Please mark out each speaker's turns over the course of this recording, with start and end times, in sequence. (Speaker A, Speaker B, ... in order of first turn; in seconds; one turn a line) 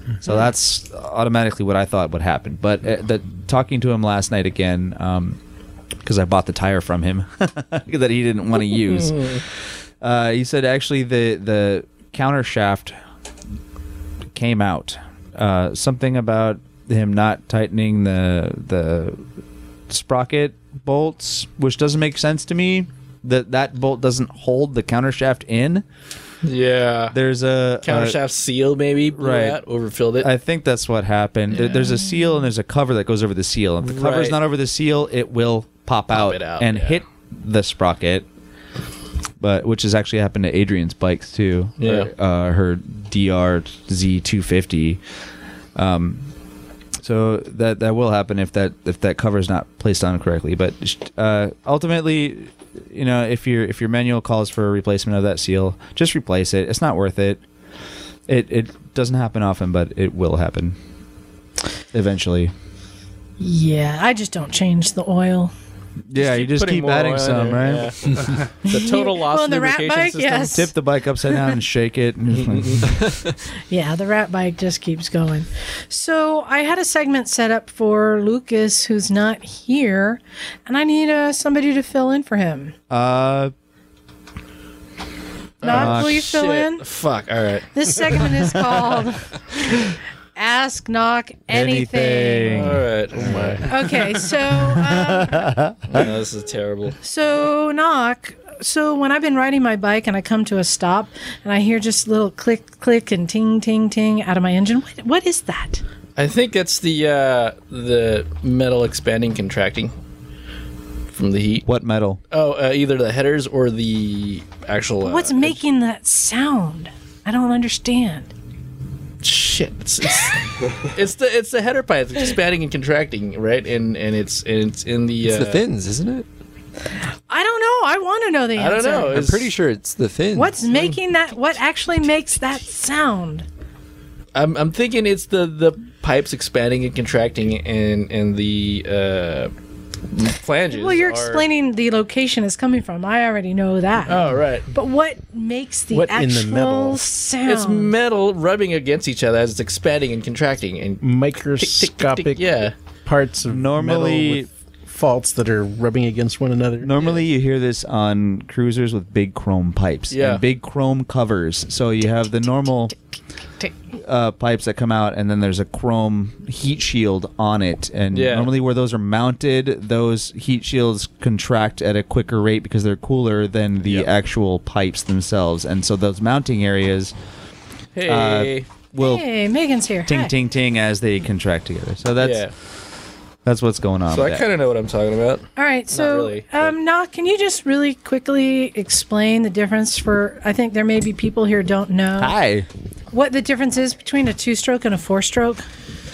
Speaker A: 0.2-5.4
Speaker A: 6.0-9.4
Speaker A: 10.0-12.9
Speaker A: 14.3-19.2
Speaker A: 19.9-25.8
Speaker B: 26.4-27.1
Speaker A: 27.1-28.2
Speaker B: 27.8-30.3
Speaker A: 29.2-29.6
Speaker A: 30.2-38.2
Speaker B: 33.8-34.4
Speaker B: 36.1-37.0
Speaker A: 39.4-45.0
Speaker B: 41.8-42.1
Speaker A: 45.8-46.3
Speaker A: 47.0-57.4
Speaker A: 58.3-60.8
Speaker A: 61.9-62.5
Speaker C: 63.4-65.5
Speaker A: 66.1-67.9
Speaker B: 66.1-70.5
Speaker C: 68.7-70.7
Speaker A: 70.4-73.0
Speaker B: 72.4-73.3
Speaker C: 73.7-82.7
Speaker A: 82.9-83.5
Speaker B: 85.6-87.7
Speaker C: 85.6-86.8
Speaker A: 85.7-86.3
Speaker C: 87.7-92.8
Speaker A: 91.5-92.8
Speaker B: 92.5-93.7
Speaker D: 93.2-93.6
Speaker C: 93.7-95.5
Speaker A: 94.7-96.1
Speaker B: 95.9-97.0
Speaker C: 97.0-105.8
Speaker B: 106.2-109.9
Speaker B: 111.1-111.7
Speaker A: 111.7-112.2
Speaker B: 112.3-115.6
Speaker C: 115.0-118.3
Speaker B: 119.2-125.6
Speaker E: 125.2-126.2
Speaker C: 127.3-129.2
Speaker B: 128.6-129.5
Speaker E: 129.1-130.6
Speaker C: 130.3-133.4
Speaker B: 134.3-139.5
Speaker B: 140.1-141.4
Speaker C: 140.7-147.9
Speaker B: 144.1-144.7
Speaker D: 145.9-147.0
Speaker B: 147.4-152.7
Speaker D: 151.0-157.1
Speaker A: 153.5-154.5
Speaker A: 156.8-162.9
Speaker B: 160.1-160.4
Speaker A: 164.0-177.1
Speaker B: 168.1-168.5
Speaker B: 177.9-178.7
Speaker A: 178.0-179.3
Speaker C: 179.0-180.3
Speaker A: 180.1-182.5
Speaker B: 182.2-182.5
Speaker A: 183.4-184.4
Speaker B: 184.1-186.7
Speaker C: 185.6-192.3
Speaker A: 192.2-192.7
Speaker C: 193.1-195.6